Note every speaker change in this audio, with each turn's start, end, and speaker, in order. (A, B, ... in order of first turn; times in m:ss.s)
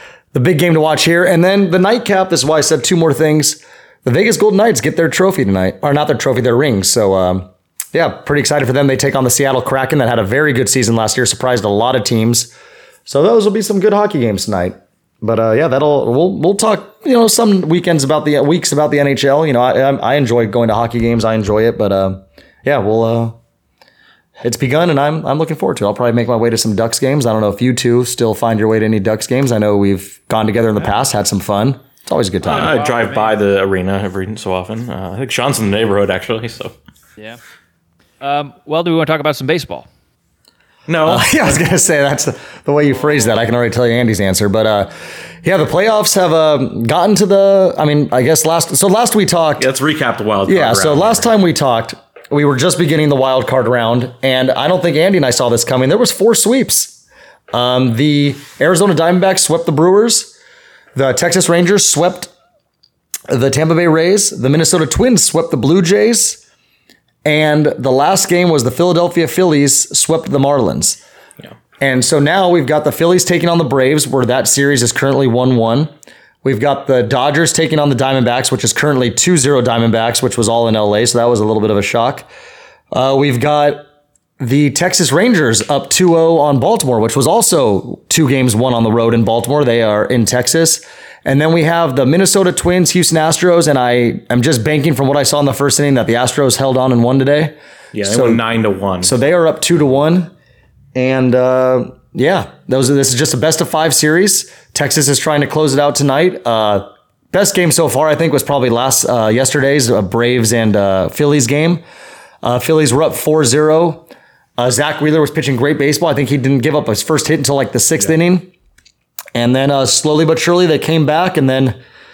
0:00.3-0:12.5 A
0:13.0-0:23.4 A
0:24.4-0:32.8 A
0:32.4-0:36.7 B
0:32.6-0:33.3 C
0:38.2-0:39.9 C
0:40.9-0:41.4 B
0:41.0-0:49.7 A
0:49.6-0:51.3 B
0:50.5-0:57.0 A
0:57.5-1:00.3 A
1:00.9-1:02.3 A
1:03.3-1:06.4 A
1:07.2-1:11.0 A
1:11.8-1:15.9 A
1:16.4-1:22.3 A
1:22.9-1:23.8 A
1:24.4-1:38.4 A
1:37.9-1:39.1 B
1:39.0-1:40.3 A
1:40.9-1:51.8 A
1:52.4-1:54.0 A
1:54.6-1:58.5 A
1:59.3-2:01.8 A